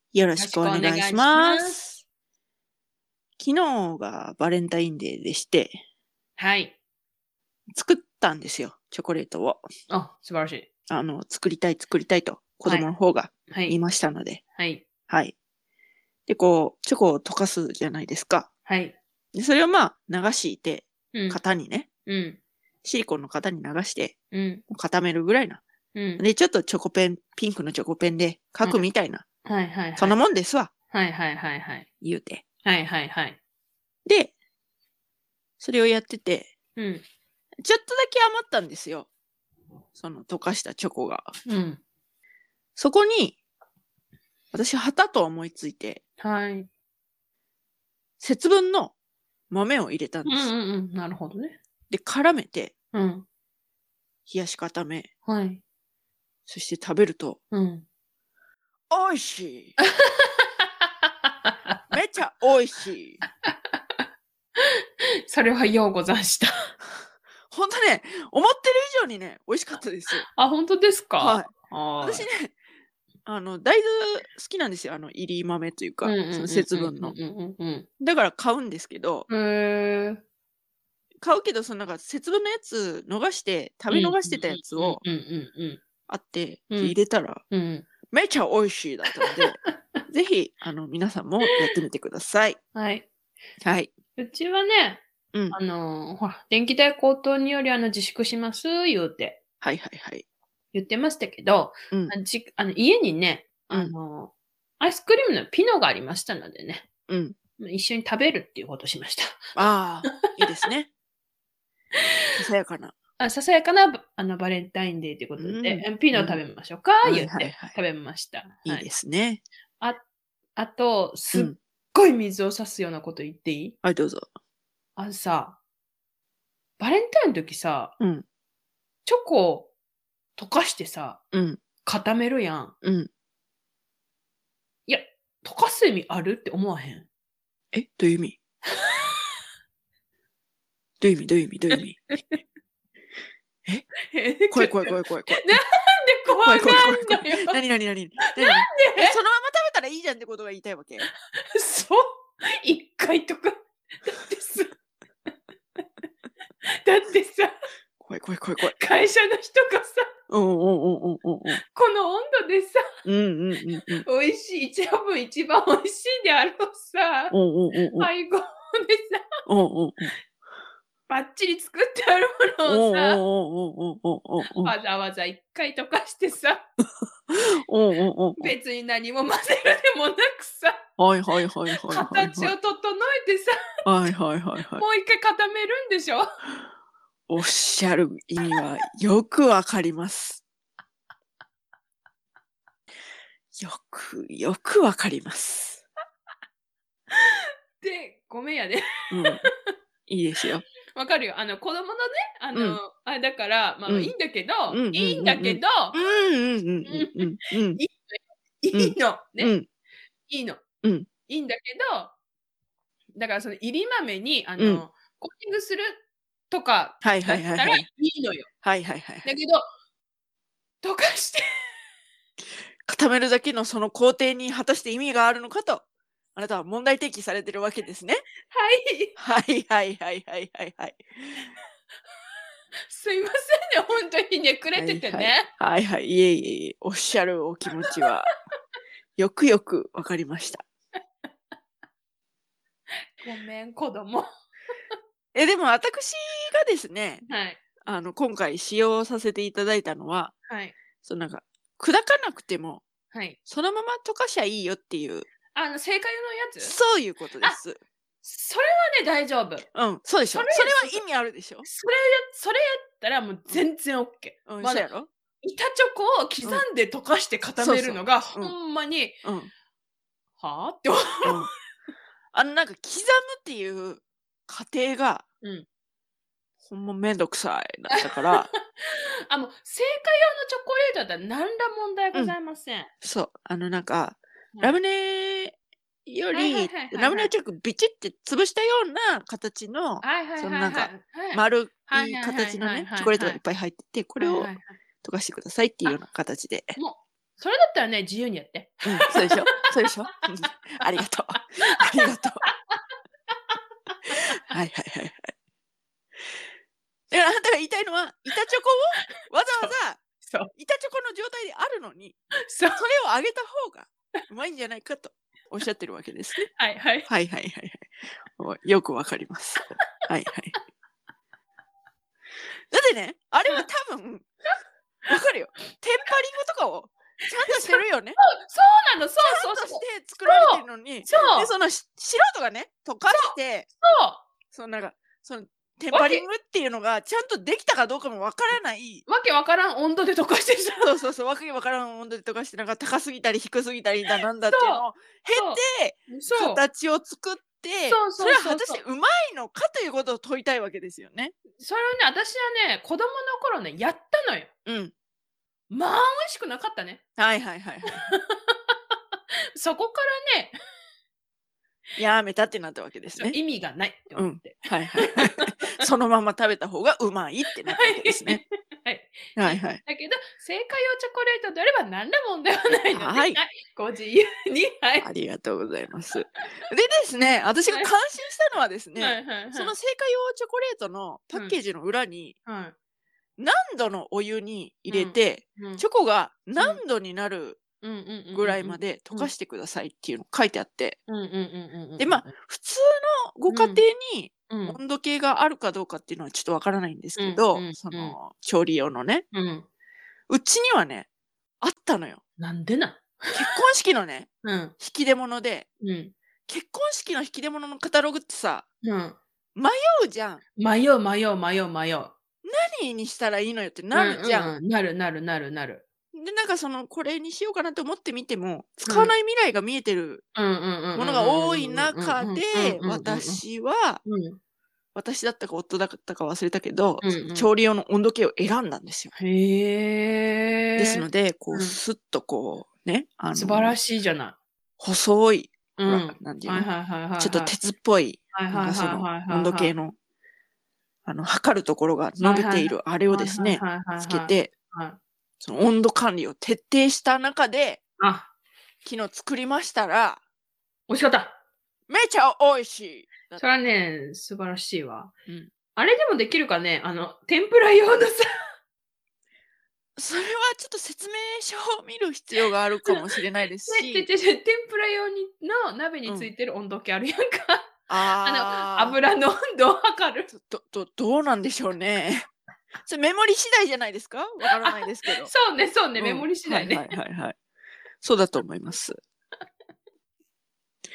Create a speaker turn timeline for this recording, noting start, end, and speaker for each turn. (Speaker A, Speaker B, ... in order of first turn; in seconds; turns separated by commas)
Speaker A: 0.1-2.0, Speaker B: 0.4-1.8, Speaker A: 3.4-5.8, Speaker B: 6.4-6.8, Speaker A: 7.8-9.7, Speaker B: 9.9-10.7, Speaker A: 10.9-14.4, Speaker B: 13.5-13.8, Speaker B: 14.6-14.8, Speaker A: 15.1-15.3, Speaker A: 16.3-18.5, Speaker B: 18.7-19.0, Speaker A: 19.3-21.9, Speaker B: 21.1-21.4, Speaker B: 22.1-22.4, Speaker A: 22.8-24.1, Speaker B: 24.3-24.6, Speaker A: 24.7-25.6, Speaker B: 25.9-26.2, Speaker A: 26.2-29.2, Speaker B: 29.4-30.2, Speaker A: 30.0-30.7, Speaker B: 30.9-31.9, Speaker A: 32.0-32.4, Speaker B: 32.6-33.4, Speaker A: 34.1-34.3, Speaker A: 35.6-36.5, Speaker B: 36.8-37.0, Speaker A: 37.6-39.1, Speaker A: 40.0-41.3, Speaker B: 41.5-41.8, Speaker A: 42.8-43.4, Speaker A: 44.5-46.0, Speaker B: 46.2-46.7, Speaker A: 48.2-48.9, Speaker A: 49.5-50.5, Speaker B: 50.3-51.6, Speaker A: 51.9-52.7, Speaker B: 52.9-53.2, Speaker A: 54.3-55.1, Speaker B: 55.3-55.6, Speaker A: 56.5-57.4, Speaker B: 57.5-57.9, Speaker A: 58.9-59.8, Speaker B: 59.8-60.9, Speaker B: 61.5-61.8, Speaker A: 61.9-63.2, Speaker B: 63.5-64.0, Speaker B: 65.3-66.7, Speaker A: 67.5-70.3, Speaker B: 70.2-72.3, Speaker A: 71.2-72.6, Speaker A: 73.3-77.2, Speaker B: 76.0-77.9, Speaker A: 78.0-79.3, Speaker B: 79.3-80.2, Speaker A: 81.2-85.0, Speaker B: 83.9-85.8, Speaker A: 86.1-87.4, Speaker B: 87.5-87.9, Speaker A: 88.1-89.6, Speaker A: 90.1-92.6, Speaker B: 92.8-93.1, Speaker A: 93.6-93.9, Speaker B: 94.2-99.4, Speaker A: 99.6-100.2, Speaker B: 100.7-106.9, Speaker A: 107.1-107.4, Speaker B: 107.6-110.1, Speaker A: 109.6-110.9, Speaker A: 112.4-113.0, Speaker B: 113.2-118.9, Speaker A: 115.4-116.4, Speaker A: 117.0-117.8, Speaker A: 118.7-119.4, Speaker B: 120.6-123.8, Speaker A: 123.8-124.3, Speaker B: 125.0-125.6, Speaker B: 126.8-127.9, Speaker A: 128.0-128.2, Speaker B: 129.1-129.7, Speaker B: 130.4-131.2, Speaker A: 131.3-131.6, Speaker B: 131.8-132.7, Speaker A: 132.8-133.1, Speaker B: 134.9-137.1, Speaker A: 137.7-138.4, Speaker B: 138.7-139.2, Speaker A: 141.0-142.0, Speaker B: 141.8-142.4, Speaker B: 144.1-147.6, Speaker A: 144.5-145.6, Speaker A: 146.4-151.1, Speaker B: 148.2-149.2, Speaker B: 151.0-154.7, Speaker B: 156.6-157.6, Speaker A: 158.0-158.8, Speaker B: 158.6-160.1, Speaker A: 160.3-161.6, Speaker B: 161.5-162.8, Speaker A: 163.1-164.1, Speaker B: 164.0-167.3, Speaker A: 167.3-168.1, Speaker B: 168.0-169.2, Speaker A: 169.5-170.1, Speaker B: 171.1-173.2, Speaker A: 172.7-174.8, Speaker B: 174.4-176.6, Speaker A: 177.3-178.5, Speaker B: 178.4-180.8, Speaker A: 181.0-182.5, Speaker B: 181.8-183.6, Speaker A: 183.8-184.8, Speaker B: 184.8-186.3, Speaker A: 187.3-190.4, Speaker A: 193.6-195.8, Speaker B: 197.1-199.7, Speaker A: 199.1-199.5, Speaker A: 200.1-200.7, Speaker B: 200.9-206.0, Speaker A: 202.5-202.8, Speaker A: 203.9-204.1, Speaker A: 204.7-207.8, Speaker B: 206.8-209.5, Speaker A: 208.7-209.7, Speaker B: 210.3-210.6, Speaker A: 210.8-211.1, Speaker B: 211.3-212.1, Speaker B: 213.2-218.5, Speaker A: 214.6-214.8, Speaker A: 217.0-217.9, Speaker A: 218.6-219.3, Speaker B: 219.2-219.6, Speaker B: 220.8-221.5, Speaker A: 222.8-225.8, Speaker A: 226.3-228.2, Speaker B: 228.5-229.2, Speaker A: 229.2-231.5, Speaker B: 232.9-235.5, Speaker A: 234.8-238.3, Speaker A: 239.2-240.6, Speaker B: 243.2-244.3, Speaker A: 245.3-247.2, Speaker B: 247.2-247.6, Speaker A: 247.8-250.3, Speaker B: 250.5-250.7, Speaker A: 251.0-252.8, Speaker B: 253.1-253.4, Speaker A: 253.5-255.3, Speaker B: 255.6-256.8, Speaker A: 256.6-257.8, Speaker B: 258.2-259.7, Speaker A: 259.7-261.7, Speaker B: 260.3-261.0, Speaker B: 261.6-264.9, Speaker A: 264.5-265.1, Speaker B: 265.4-269.2, Speaker A: 267.6-268.5, Speaker A: 269.2-269.5, Speaker B: 270.4-271.5, Speaker A: 272.3-275.2, Speaker A: 276.7-278.5, Speaker B: 277.9-282.9, Speaker A: 283.0-294.5, Speaker B: 284.5-284.8, Speaker B: 286.3-287.3, Speaker B: 290.0-293.4, Speaker B: 294.2-294.7, Speaker A: 295.0-296.8, Speaker B: 296.8-300.5, Speaker A: 298.9-302.4, Speaker B: 301.4-303.5, Speaker B: 304.1-304.4, Speaker A: 304.1-305.3, Speaker A: 307.1-310.0, Speaker B: 310.2-310.5, Speaker A: 310.5-312.2, Speaker B: 312.5-312.8, Speaker A: 312.7-316.5, Speaker B: 316.5-317.1, Speaker A: 317.1-320.6, Speaker A: 322.7-324.3, Speaker A: 325.1-328.2, Speaker B: 327.7-331.5, Speaker A: 329.2-333.7, Speaker B: 333.1-334.2, Speaker A: 334.5-339.1, Speaker B: 335.9-336.2, Speaker B: 339.1-341.0, Speaker A: 340.8-351.4, Speaker B: 344.1-346.6, Speaker B: 347.9-348.8, Speaker B: 351.6-354.5, Speaker A: 354.7-354.9, Speaker B: 355.7-357.0, Speaker A: 357.2-358.1, Speaker B: 357.9-358.8, Speaker B: 359.6-360.6, Speaker A: 362.0-363.4, Speaker B: 363.2-365.9, Speaker A: 364.1-368.4, Speaker B: 367.7-375.1, Speaker A: 369.4-369.8, Speaker A: 372.9-373.4, Speaker A: 375.0-382.4, Speaker B: 376.4-376.7, Speaker B: 379.0-379.7, Speaker B: 382.5-382.8, Speaker A: 383.4-387.6, Speaker B: 384.9-385.8, Speaker B: 387.8-389.3, Speaker A: 388.4-391.0, Speaker B: 391.1-392.3, Speaker A: 392.0-399.3, Speaker B: 393.5-393.8, Speaker B: 394.5-394.8, Speaker B: 397.2-398.2, Speaker B: 399.3-399.7, Speaker A: 400.3-401.1, Speaker A: 401.6-402.2, Speaker B: 402.4-403.6, Speaker A: 403.3-405.7, Speaker B: 404.4-404.8, Speaker B: 405.8-406.1, Speaker A: 406.5-408.7, Speaker B: 408.8-409.2, Speaker A: 409.6-410.4, Speaker B: 410.6-412.1, Speaker A: 412.4-414.5, Speaker B: 413.9-415.9, Speaker A: 416.1-420.2, Speaker B: 418.9-419.1, Speaker B: 420.4-423.4, Speaker A: 420.9-424.0, Speaker B: 424.1-424.4, Speaker A: 424.9-429.1, Speaker B: 427.0-427.5, Speaker B: 429.1-431.8, Speaker A: 430.8-433.8, Speaker B: 433.3-434.4, Speaker A: 434.8-436.7, Speaker B: 435.8-437.5, Speaker A: 437.2-439.9, Speaker B: 438.3-439.7, Speaker A: 441.1-444.5, Speaker B: 442.2-445.0, Speaker A: 445.4-447.8, Speaker B: 448.0-448.3, Speaker A: 448.8-450.2, Speaker B: 450.9-451.4, Speaker A: 451.9-453.4, Speaker B: 453.4-455.1, Speaker A: 455.3-455.5, Speaker B: 455.8-458.3, Speaker A: 460.0-464.1, Speaker B: 463.7-470.3, Speaker A: 467.9-469.0, Speaker A: 470.3-472.3, Speaker A: 472.8-475.3, Speaker B: 474.6-476.9, Speaker A: 476.0-477.4, Speaker A: 478.0-479.0